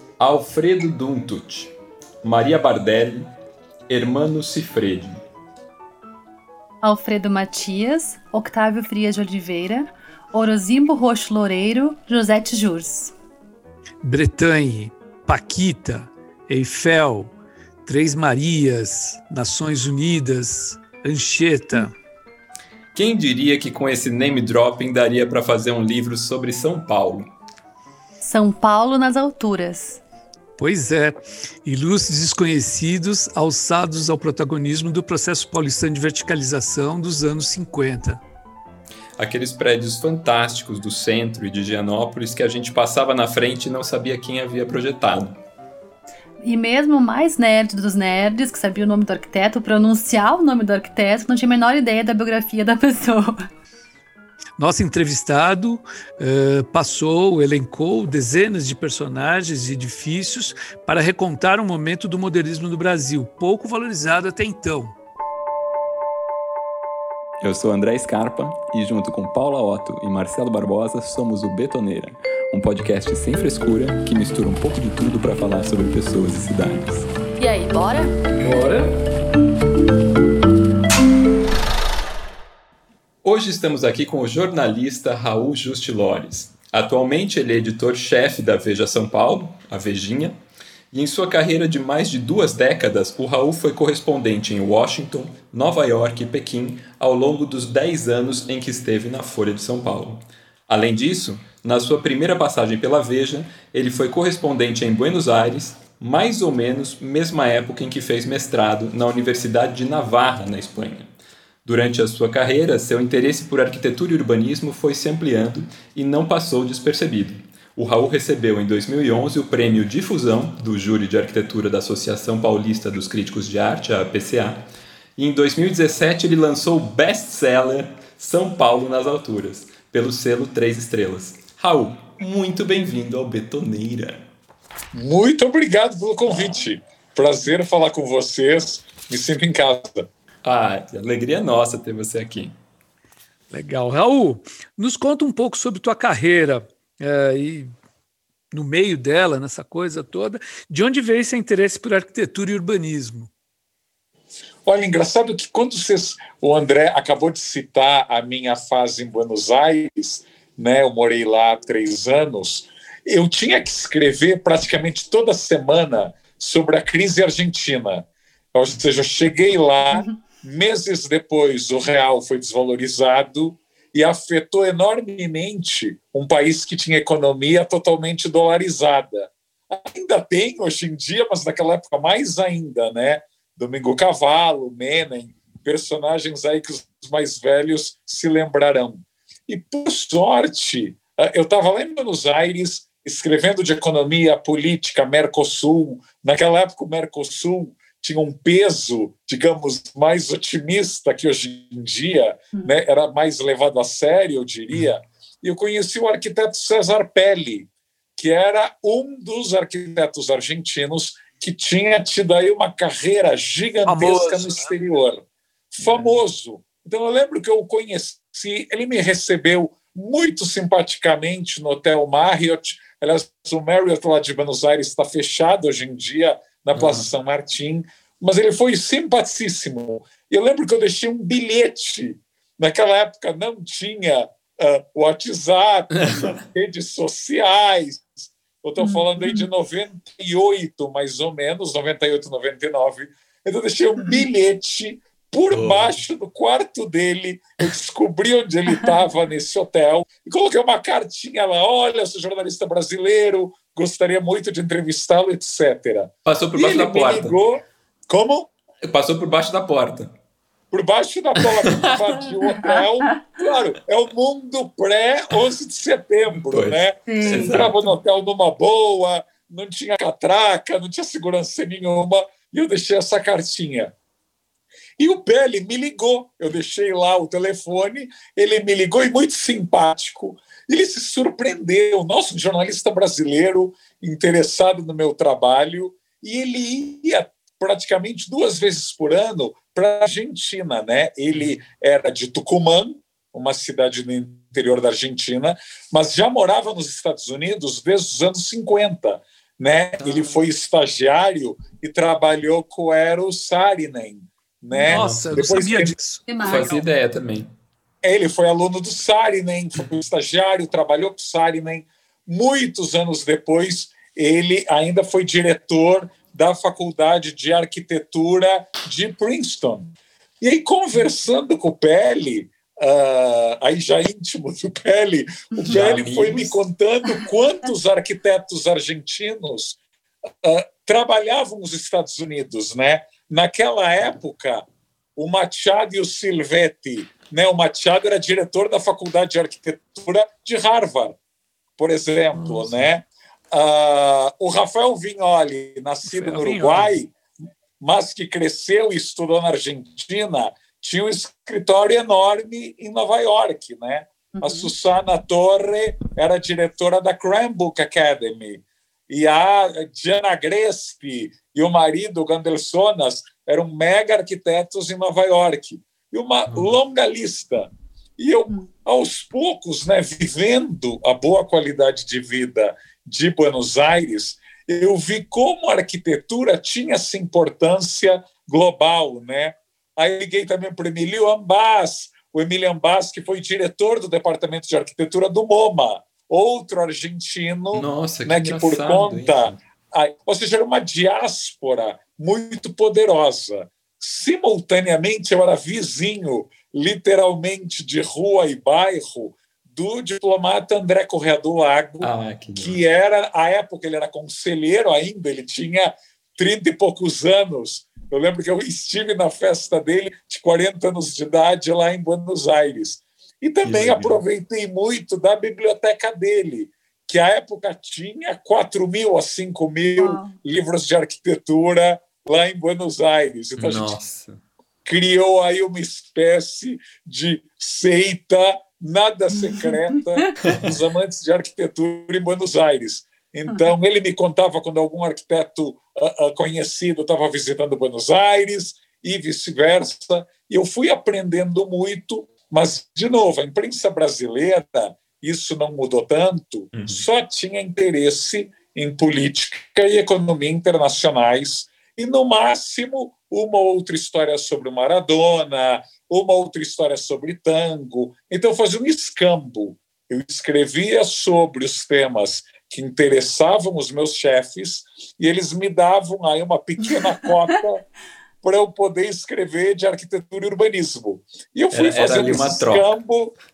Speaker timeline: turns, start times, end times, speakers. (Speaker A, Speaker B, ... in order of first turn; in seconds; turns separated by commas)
Speaker A: 0.2-3.3, Speaker A: 3.9-5.2, Speaker B: 6.8-13.1, Speaker C: 14.0-17.3, Speaker C: 17.9-21.9, Speaker A: 22.9-27.3, Speaker B: 28.2-30.0, Speaker C: 30.6-38.2, Speaker A: 39.2-45.4, Speaker B: 46.4-53.4, Speaker C: 54.6-64.9, Speaker A: 67.4-77.1, Speaker B: 77.4-78.1, Speaker C: 78.4-78.9, Speaker A: 83.2-90.4, Speaker A: 90.9-111.1, Speaker A: 111.6-134.2, Speaker D: 134.9-140.1, Speaker A: 140.4-142.5, Speaker C: 143.5-147.7, Speaker C: 148.5-153.3, Speaker D: 154.6-258.5, Speaker B: 169.9-170.2, Speaker C: 213.9-214.7, Speaker A: 215.8-216.2, Speaker A: 226.8-227.1, Speaker A: 236.0-236.3, Speaker B: 238.8-239.4, Speaker A: 245.5-245.9, Speaker A: 256.2-257.4, Speaker A: 258.8-260.1, Speaker D: 260.7-273.9, Speaker A: 261.4-262.1, Speaker B: 262.4-262.9, Speaker A: 266.3-267.9, Speaker B: 267.1-267.6, Speaker D: 275.0-306.0, Speaker C: 304.8-306.2, Speaker A: 304.9-305.3, Speaker B: 306.3-306.8, Speaker A: 306.4-307.5, Speaker D: 308.0-329.8, Speaker A: 325.7-326.6, Speaker D: 330.4-341.2, Speaker D: 341.8-347.1, Speaker A: 342.4-342.9, Speaker C: 346.1-346.9, Speaker D: 347.8-424.0, Speaker B: 354.3-354.7, Speaker A: 366.5-366.7, Speaker A: 387.7-389.6, Speaker A: 402.0-402.8, Speaker A: 413.6-414.2, Speaker B: 420.0-420.3, Speaker A: 423.6-424.4, Speaker D: 424.8-467.8, Speaker B: 429.3-430.3, Speaker A: 446.7-447.0, Speaker D: 468.4-473.3, Speaker A: 471.7-472.9